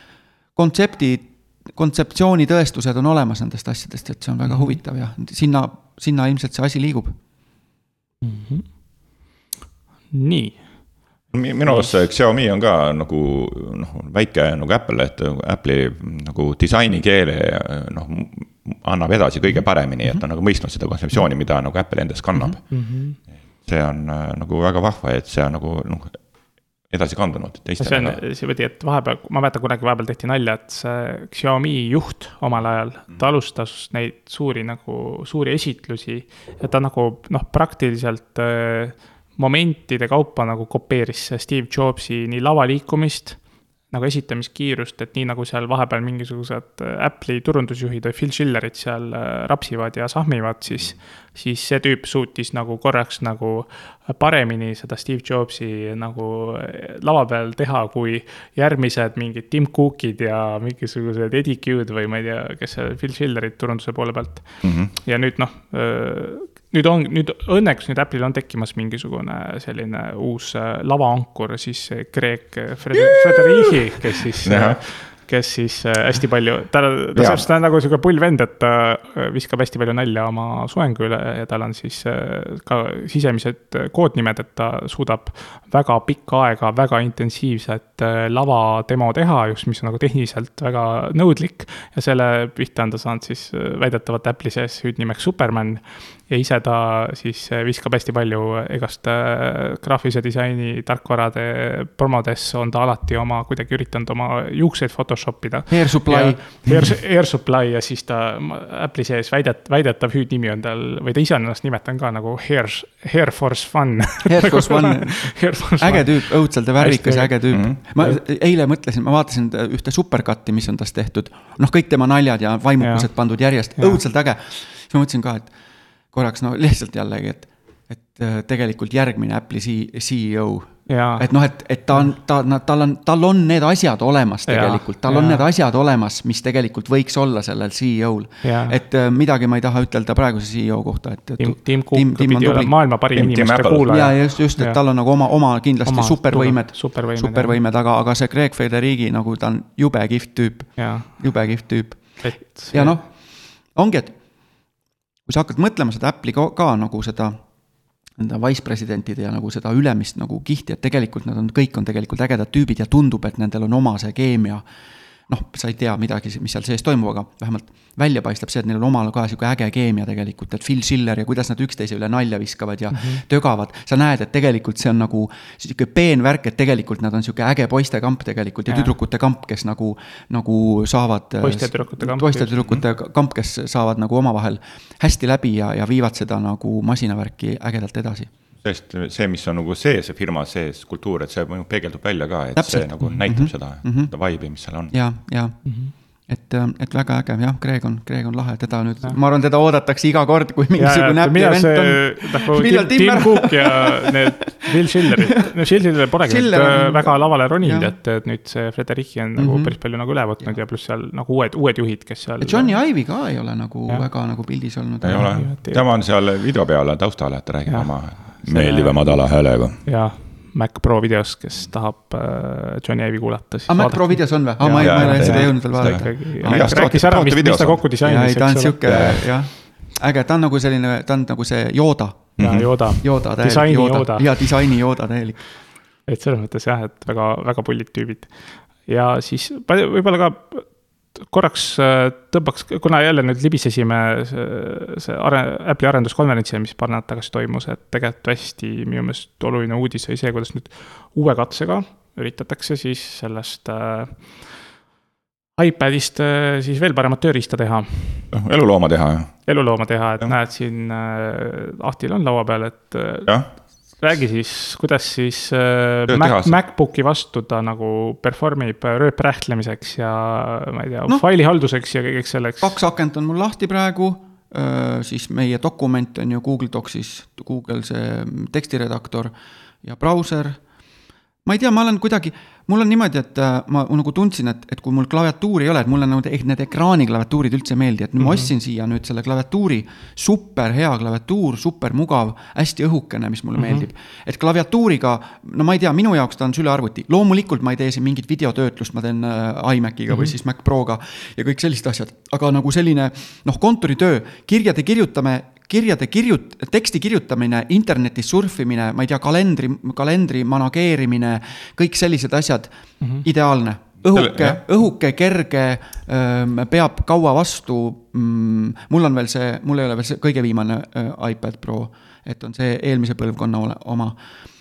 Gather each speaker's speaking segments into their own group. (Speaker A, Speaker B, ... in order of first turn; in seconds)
Speaker A: 0.6-7.2, 105.7-106.9, 114.3-125.5, 126.1-142.7, 143.9-153.2, 153.7-154.2, 155.3-157.4, 158.2-164.7, 165.3-188.3, 192.6-194.1, 194.9-195.7, 196.3-205.2, 206.2-207.9, 209.4-209.8, 212.4-215.3, 223.7-226.9, 228.0-232.3, 233.0-235.4, 272.6-280.6, 281.4-312.7, 313.2-324.2
Speaker B: 8.2-8.7, 10.1-10.7, 11.7-12.0, 22.7-23.2, 27.8-43.4, 43.9-118.2, 122.8-123.1, 130.9-131.3, 134.5-135.5, 138.4-138.8, 141.4-144.8, 145.8-147.6, 150.8-151.2, 152.2-153.0, 172.9-173.2, 178.7-178.9, 181.4-182.6, 195.7-195.9, 200.8-212.8, 215.1-215.8, 217.7-219.1, 219.8-229.2, 232.4-234.7, 236.1-254.5, 255.6-258.3, 259.5-263.4, 264.0-272.8, 288.2-288.5, 293.6-293.9, 300.1-300.3, 313.0-313.3
Speaker C: 11.3-26.2, 26.9-28.2, 64.6-64.9, 74.5-74.8, 77.2-77.5, 117.5-117.8, 143.1-143.9, 188.6-194.9, 215.0-219.8, 224.8-227.8, 228.8-229.2, 232.4-232.7, 258.3-259.3, 266.1-266.6, 314.1-314.6